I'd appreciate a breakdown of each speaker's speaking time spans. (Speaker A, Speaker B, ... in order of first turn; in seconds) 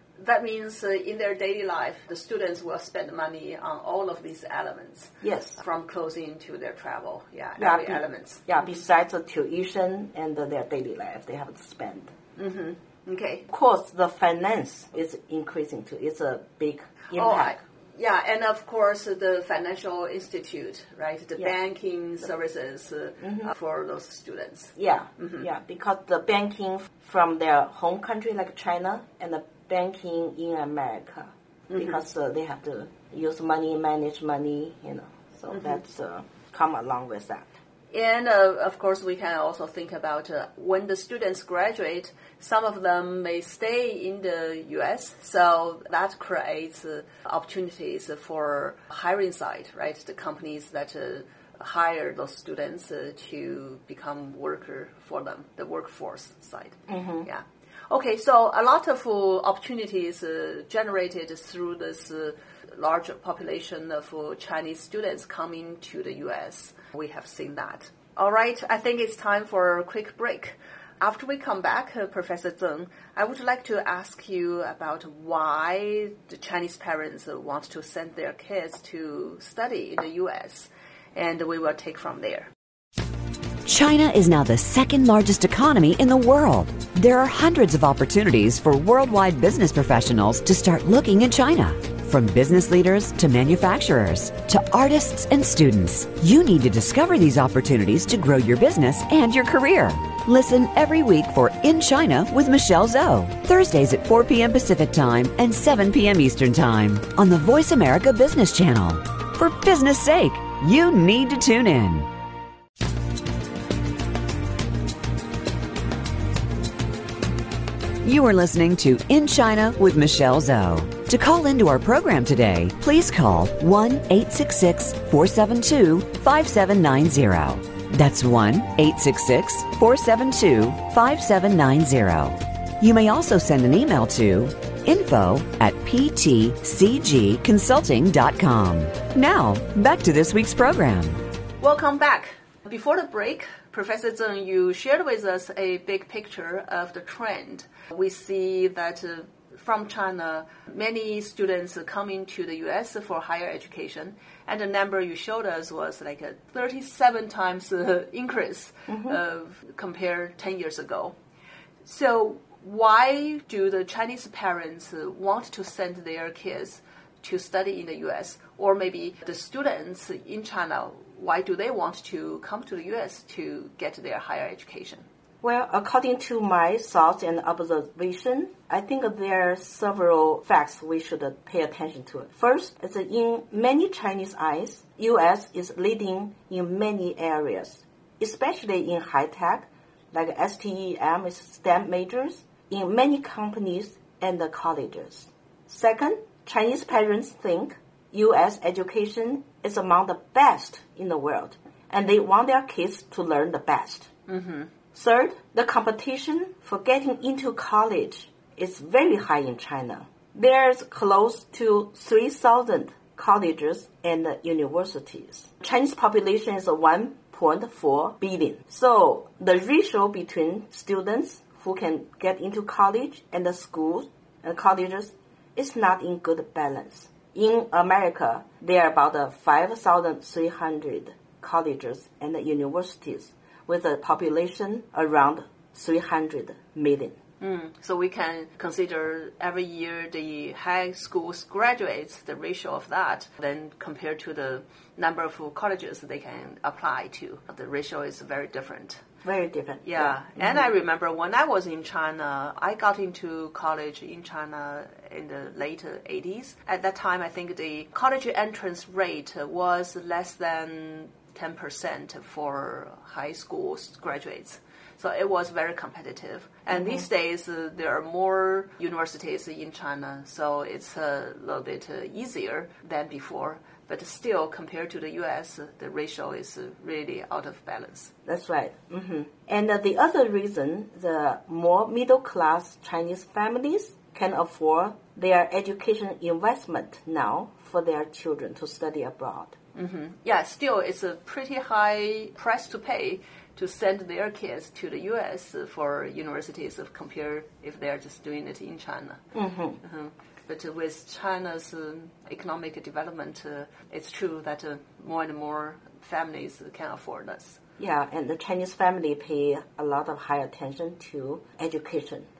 Speaker A: 0.2-8.7, 12.3-13.5, 17.1-25.4, 31.7-32.0, 37.9-82.5, 141.6-161.2, 161.8-175.1, 204.3-204.7, 237.4-249.0, 249.8-278.1, 289.7-299.2, 299.8-307.6
Speaker B: 5.2-5.6, 7.6-12.1, 13.5-17.5, 23.2-23.5, 24.8-37.5, 56.9-57.3, 158.9-159.2, 175.4-204.1, 204.9-237.2, 249.2-250.7, 266.7-267.1, 278.2-289.6, 299.3-299.8, 307.8-312.3
Speaker C: 83.7-112.1, 118.0-141.2